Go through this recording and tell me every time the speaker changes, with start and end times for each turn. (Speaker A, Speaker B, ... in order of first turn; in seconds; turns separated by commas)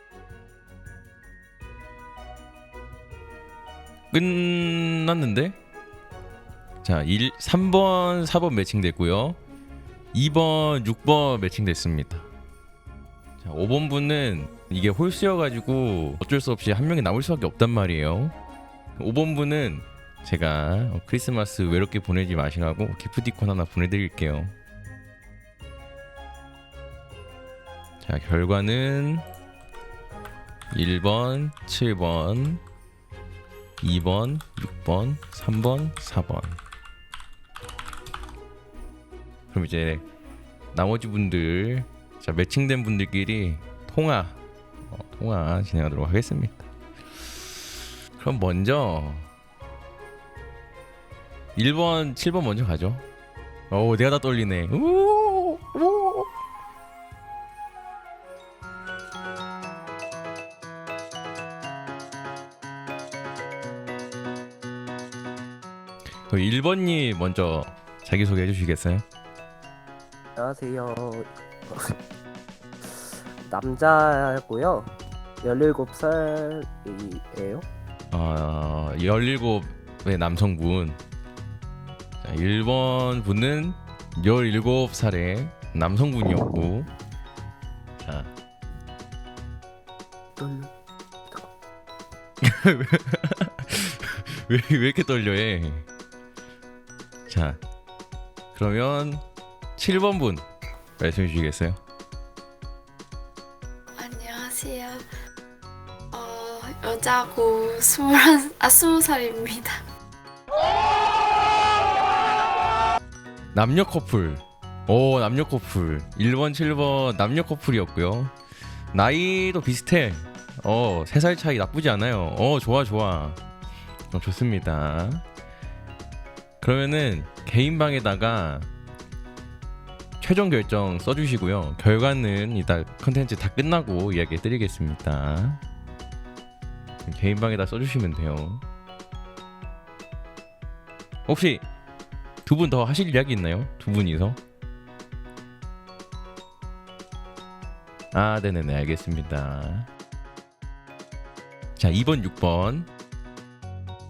Speaker A: 4.1-5.6, Speaker A: 6.8-9.4, Speaker A: 10.1-12.3, Speaker A: 13.4-18.4, Speaker A: 19.0-24.5, Speaker A: 28.1-29.3, Speaker A: 30.7-32.6, Speaker A: 33.8-36.6, Speaker A: 39.5-40.0, Speaker A: 40.7-46.7, Speaker A: 48.2-49.3, Speaker A: 51.5-53.0, Speaker A: 53.7-56.3, Speaker A: 66.3-69.0, Speaker B: 70.4-72.0, Speaker B: 72.8-74.9, Speaker B: 75.4-77.7, Speaker A: 78.1-81.0, Speaker A: 82.2-86.9, Speaker A: 88.0-88.3, Speaker B: 90.4-90.7, Speaker A: 92.4-95.9, Speaker A: 97.3-97.6, Speaker A: 98.5-99.2, Speaker A: 99.8-100.5, Speaker A: 101.0-101.8, Speaker C: 103.9-105.0, Speaker C: 106.1-109.8, Speaker A: 113.5-118.3, Speaker A: 118.9-123.4, Speaker A: 124.1-125.2, Speaker A: 126.6-128.7, Speaker A: 130.2-135.6, Speaker A: 137.1-138.6, Speaker A: 141.3-141.7, Speaker A: 142.4-144.4, Speaker A: 148.1-149.9, Speaker A: 151.8-152.9